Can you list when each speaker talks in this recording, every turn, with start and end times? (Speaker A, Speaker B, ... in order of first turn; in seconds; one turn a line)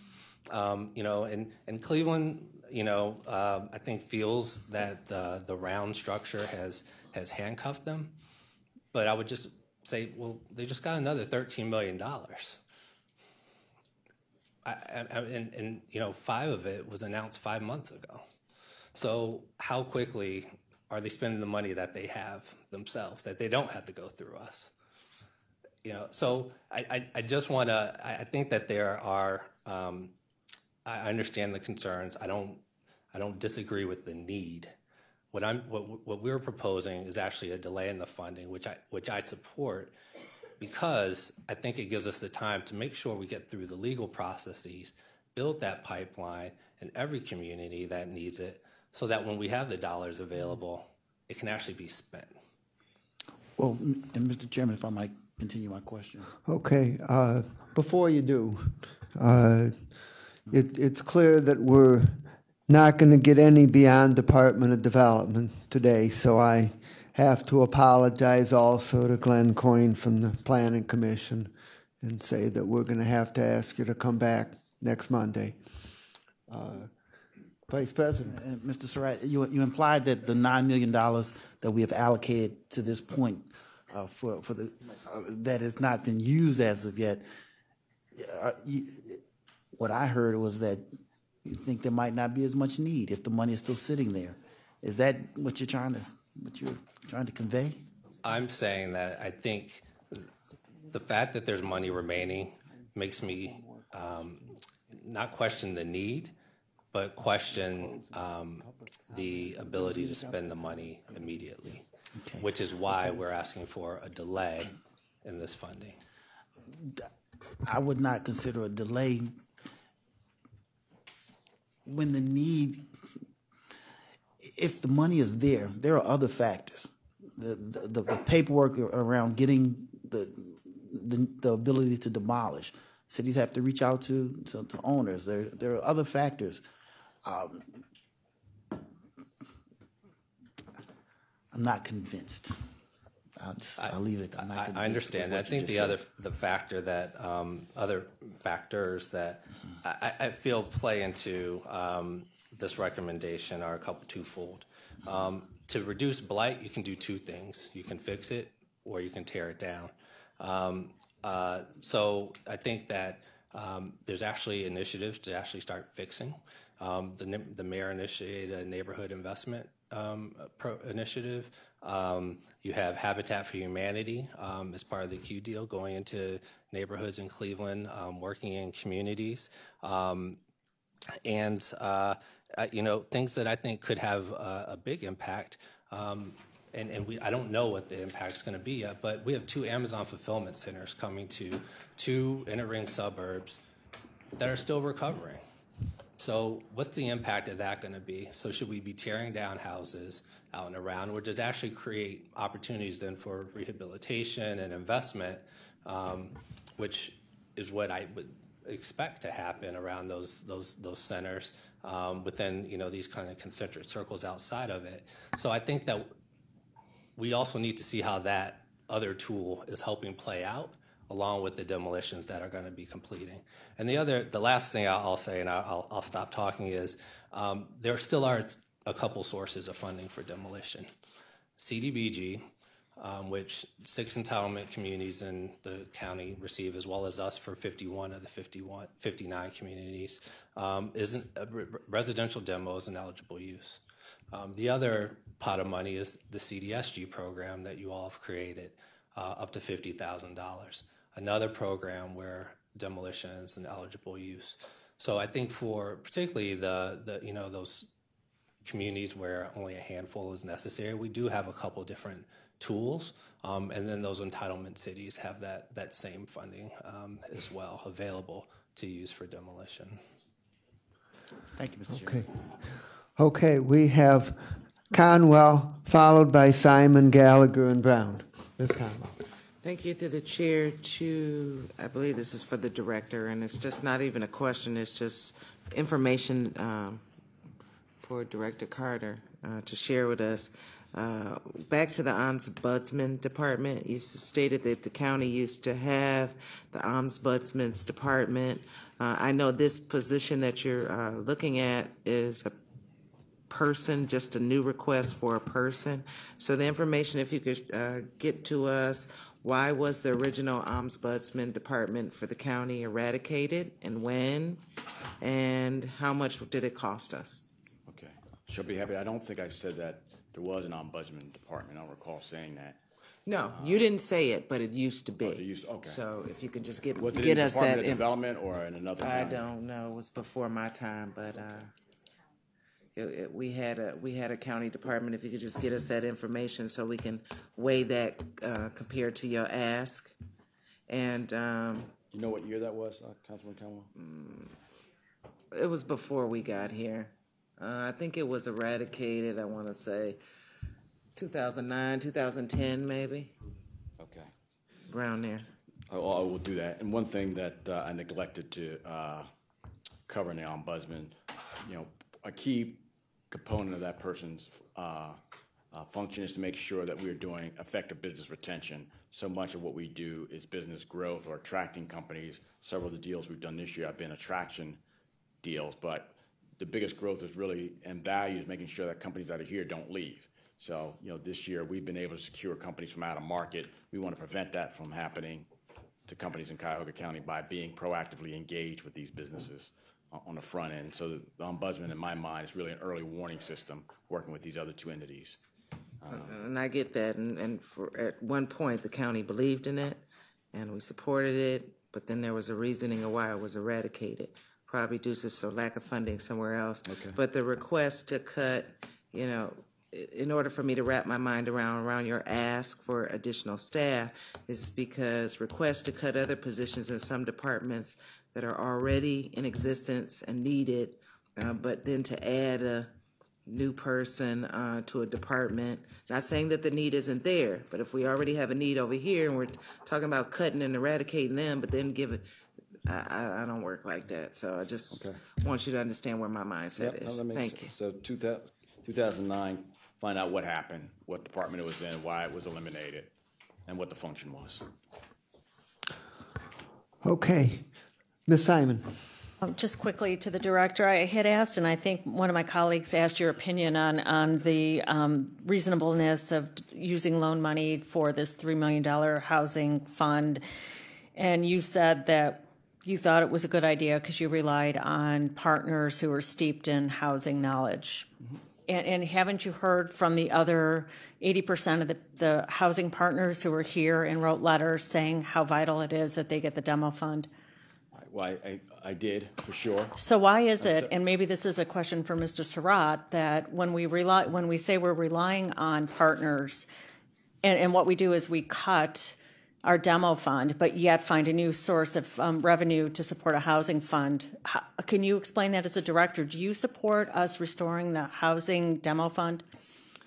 Speaker A: 0.5-8.2
Speaker A: 8.9-12.6
Speaker A: 14.7-18.2
Speaker A: 18.9-24.7
Speaker A: 25.8-30.1
Speaker A: 30.9-32.6
Speaker A: 33.1-34.7
Speaker A: 35.3-40.0
Speaker A: 40.6-52.4
Speaker B: 53.6-56.3
Speaker C: 56.5-59.9
Speaker C: 60.5-75.6
Speaker C: 76.5-76.9
Speaker C: 77.7-78.4
Speaker B: 78.3-87.3
Speaker B: 88.2-89.2
Speaker B: 89.8-90.9
Speaker B: 91.5-97.8
Speaker A: 98.2-100.3
Speaker A: 100.9-106.3
Speaker A: 106.9-111.8
Speaker A: 112.4-114.7
Speaker A: 115.2-116.0
Speaker B: 116.8-117.1
Speaker B: 117.7-119.4
Speaker B: 121.9-122.9
Speaker B: 124.4-136.6
Speaker B: 137.2-137.8
Speaker B: 141.5-142.6
Speaker B: 143.4-146.1
Speaker A: 143.8-180.4
Speaker A: 181.2-193.6
Speaker A: 194.4-195.4
Speaker A: 196.2-216.1
Speaker A: 217.2-230.9
Speaker A: 231.6-232.5
Speaker A: 233.0-257.9
Speaker A: 258.6-270.0
Speaker B: 271.6-272.2
Speaker C: 271.9-279.2
Speaker D: 279.6-287.0
Speaker D: 288.0-302.6
Speaker D: 303.5-314.6
Speaker D: 315.2-317.4
Speaker E: 317.9-322.8
Speaker D: 323.3-328.1
Speaker E: 323.4-323.9
Speaker E: 325.2-326.1
Speaker E: 326.9-329.6
Speaker D: 329.0-331.7
Speaker D: 333.0-340.1
Speaker D: 340.9-341.9
Speaker E: 342.1-343.9
Speaker D: 344.0-344.6
Speaker D: 345.5-350.2
Speaker D: 351.2-353.4
Speaker E: 354.0-354.3
Speaker D: 354.9-355.5
Speaker E: 355.9-359.3
Speaker E: 360.1-365.2
Speaker E: 365.7-374.8
Speaker E: 375.4-385.5
Speaker E: 386.1-395.4
Speaker E: 396.0-396.4
Speaker D: 396.1-422.9
Speaker E: 406.9-407.2
Speaker D: 423.5-432.3
Speaker D: 432.9-437.7
Speaker E: 434.9-435.2
Speaker E: 436.7-443.1
Speaker E: 443.7-444.7
Speaker C: 447.0-447.7
Speaker C: 448.3-449.3
Speaker F: 449.4-460.4
Speaker F: 461.2-468.1
Speaker F: 468.7-477.3
Speaker E: 477.9-479.9
Speaker F: 480.0-486.7
Speaker E: 480.6-480.9
Speaker F: 487.4-499.4